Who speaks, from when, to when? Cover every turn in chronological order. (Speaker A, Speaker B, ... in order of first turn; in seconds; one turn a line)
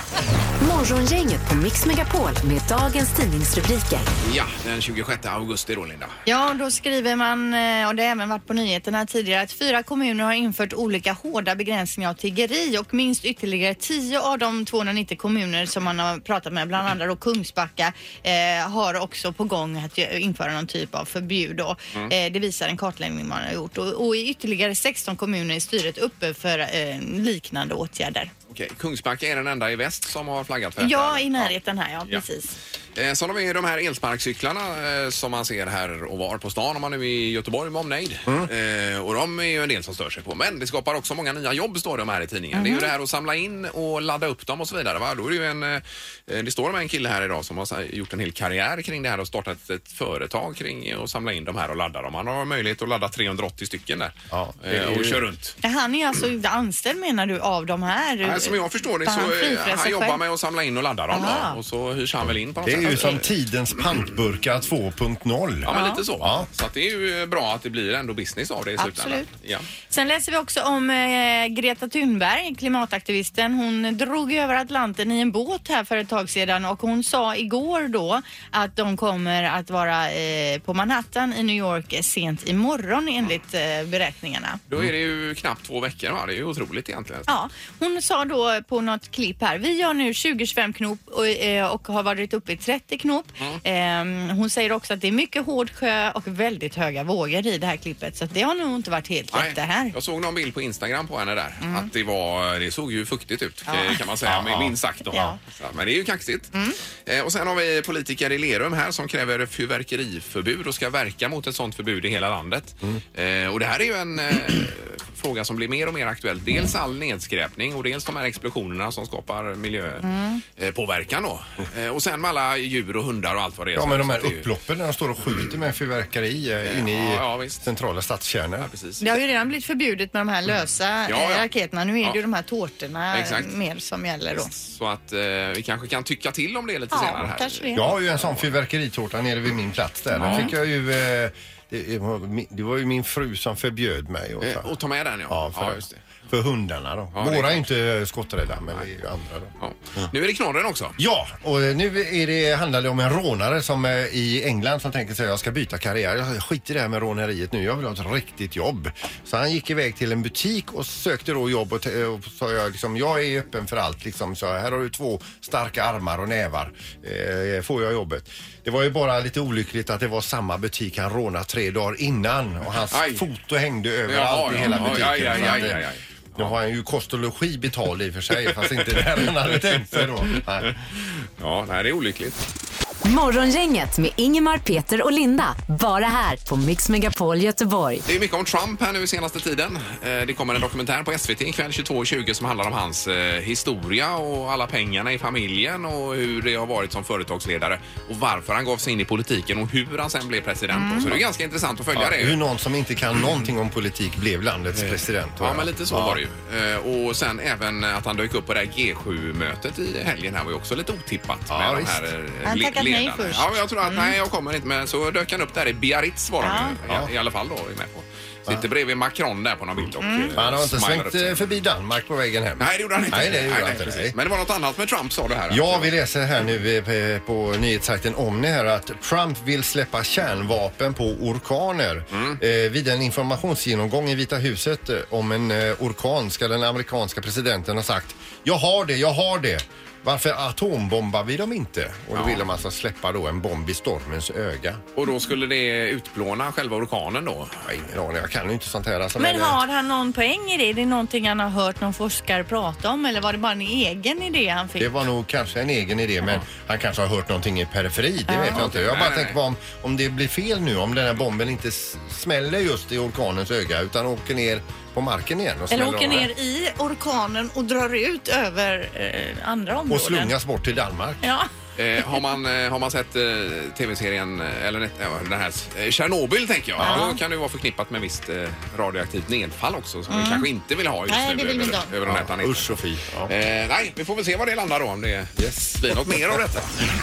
Speaker A: 0.6-4.1
Speaker B: 4.2-6.2
Speaker C: 6.2-28.3
Speaker B: 28.5-31.5
Speaker C: 30.8-32.5
Speaker B: 33.0-55.6
Speaker C: 42.5-42.9
Speaker D: 54.3-55.2
Speaker C: 55.6-60.2
Speaker B: 58.2-63.3
Speaker C: 61.1-61.6
Speaker D: 62.6-66.5
Speaker B: 65.6-69.7
Speaker C: 65.7-66.0
Speaker C: 68.8-69.3
Speaker C: 69.9-84.6
Speaker B: 84.7-87.3
Speaker C: 87.3-99.9
Speaker B: 99.3-106.5
Speaker C: 101.6-101.9
Speaker C: 103.7-104.0
Speaker D: 104.2-104.7
Speaker C: 105.1-105.4
Speaker B: 107.0-124.5
Speaker C: 120.0-120.4
Speaker D: 123.7-128.7
Speaker B: 126.6-127.7
Speaker B: 128.6-129.1
Speaker C: 129.0-134.5
Speaker B: 131.1-131.4
Speaker B: 133.1-133.5
Speaker B: 134.3-138.5
Speaker C: 136.9-137.9
Speaker D: 137.7-144.7
Speaker C: 140.2-140.5
Speaker B: 140.2-140.5
Speaker B: 144.4-146.0
Speaker D: 145.3-150.1
Speaker B: 147.1-147.6
Speaker B: 149.6-150.9
Speaker D: 151.0-180.7
Speaker B: 172.9-173.2
Speaker B: 174.1-176.5
Speaker B: 179.0-182.4
Speaker A: 183.0-188.0
Speaker B: 188.1-202.4
Speaker C: 200.7-201.1
Speaker D: 201.9-206.2
Speaker B: 204.8-221.4
Speaker D: 211.5-212.0
Speaker C: 212.4-214.1
Speaker C: 216.4-216.8
Speaker C: 220.0-220.3
Speaker D: 220.3-224.1
Speaker B: 222.6-225.9
Speaker D: 225.5-244.8
Speaker B: 232.1-232.4
Speaker B: 242.1-242.4
Speaker B: 244.9-247.6
Speaker D: 247.6-249.6
Speaker C: 249.2-254.9
Speaker D: 254.8-266.3
Speaker C: 258.3-258.6
Speaker B: 258.5-259.4
Speaker C: 265.7-270.3
Speaker D: 269.9-271.2
Speaker C: 271.2-271.5
Speaker B: 271.8-286.7
Speaker D: 276.8-277.1
Speaker C: 276.8-277.2
Speaker C: 280.1-280.5
Speaker C: 281.1-281.9
Speaker D: 282.1-283.3
Speaker D: 285.4-286.4